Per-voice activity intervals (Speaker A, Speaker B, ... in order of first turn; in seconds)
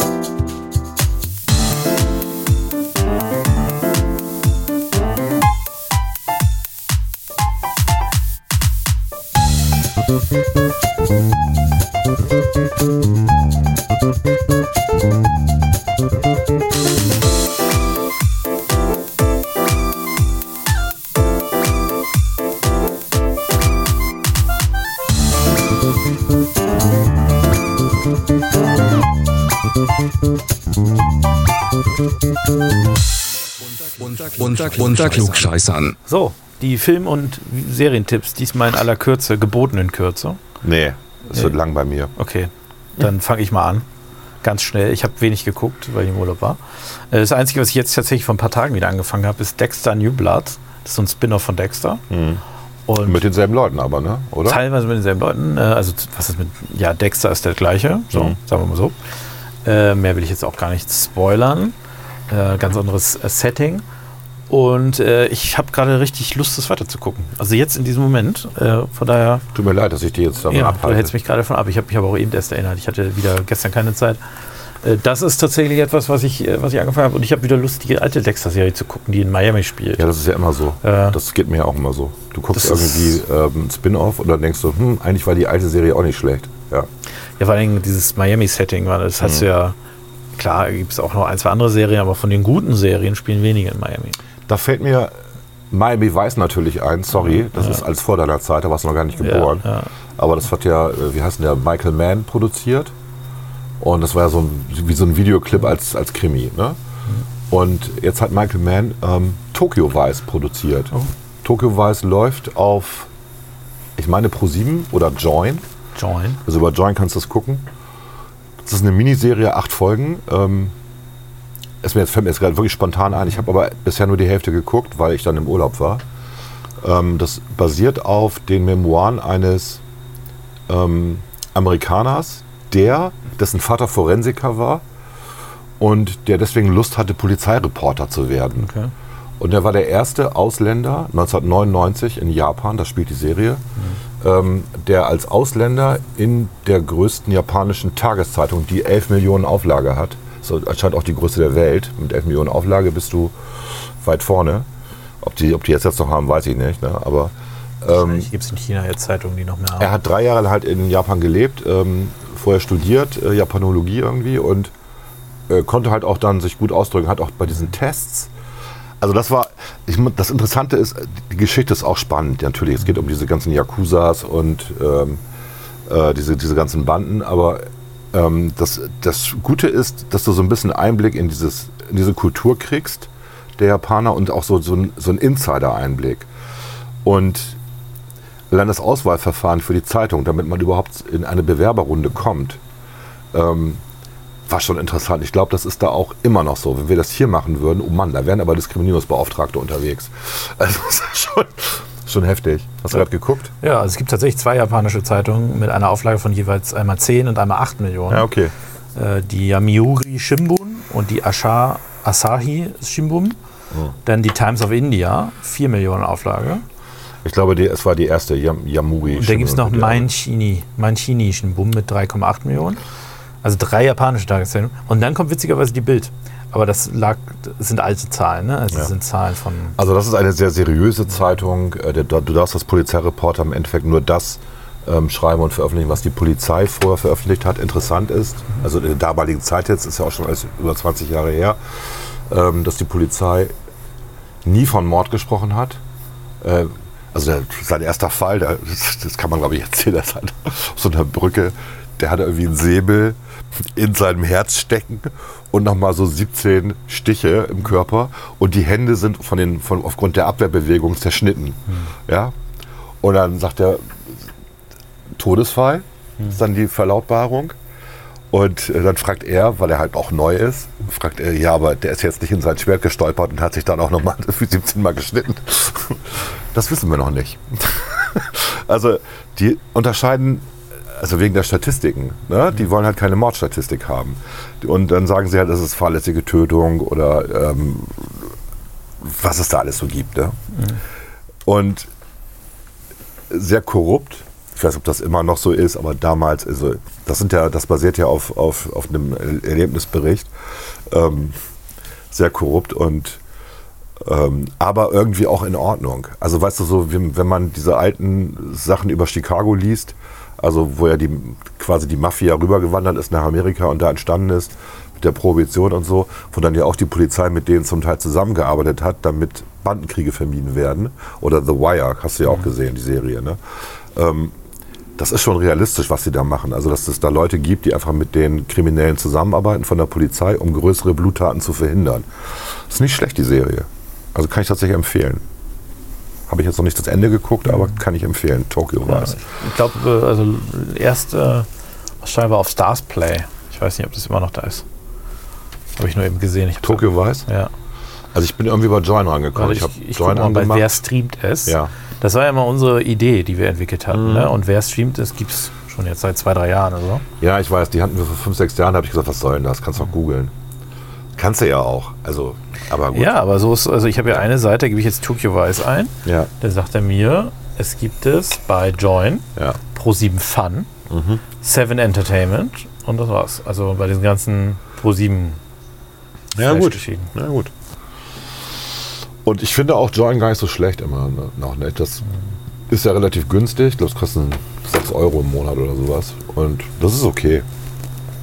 Speaker A: 33.9-36.0
Speaker B: 36.0-40.4, 42.1-43.9, 44.4-52.0, 52.9-53.2, 54.4-59.0, 59.6-61.8, 62.3-63.8, 64.5-69.5, 70.5-74.2, 74.8-80.1, 80.8-81.2, 82.5-83.2, 87.4-89.8, 90.3-94.2, 97.3-97.8, 99.2-99.9, 115.9-116.4, 138.6-138.9, 157.9-159.9, 203.6-208.3, 208.9-213.4, 214.0-216.6, 219.1-222.8, 223.4-229.8, 338.9-341.5, 342.0-344.6, 345.8-347.5, 349.3-357.0, 362.9-370.7, 371.4-375.4, 376.4-377.1
Speaker C: 40.6-42.1, 52.1-52.4, 53.0-54.6, 69.5-71.1, 80.0-86.9, 89.2-89.5, 94.5-95.2, 95.7-102.9, 103.8-106.8, 107.5-113.1, 114.0-115.6, 116.4-117.7, 118.6-120.7, 121.8-126.0, 126.8-129.8, 130.7-134.8, 135.8-138.7, 139.4-143.6, 144.2-154.7, 155.2-158.3, 159.8-164.7, 165.5-168.3, 169.0-175.2, 175.9-186.3, 187.0-187.6, 188.5-192.6, 193.3-193.8, 194.5-203.5, 208.1-208.5, 217.2-220.1, 229.8-243.5, 244.4-245.8, 246.4-253.2, 253.7-262.3, 263.0-264.1, 265.2-267.6, 268.3-288.4, 289.0-290.4, 291.4-291.9, 293.3-300.3, 300.9-301.3, 302.1-303.2, 304.0-323.4, 323.9-324.3, 325.0-335.2, 336.3-339.2, 346.6-347.3, 348.1-350.8, 351.4-351.7, 353.9-354.3, 357.2-360.3, 361.1-363.1, 366.0-366.3, 370.9-371.2, 376.3-377.5, 379.2-382.0, 382.7-387.4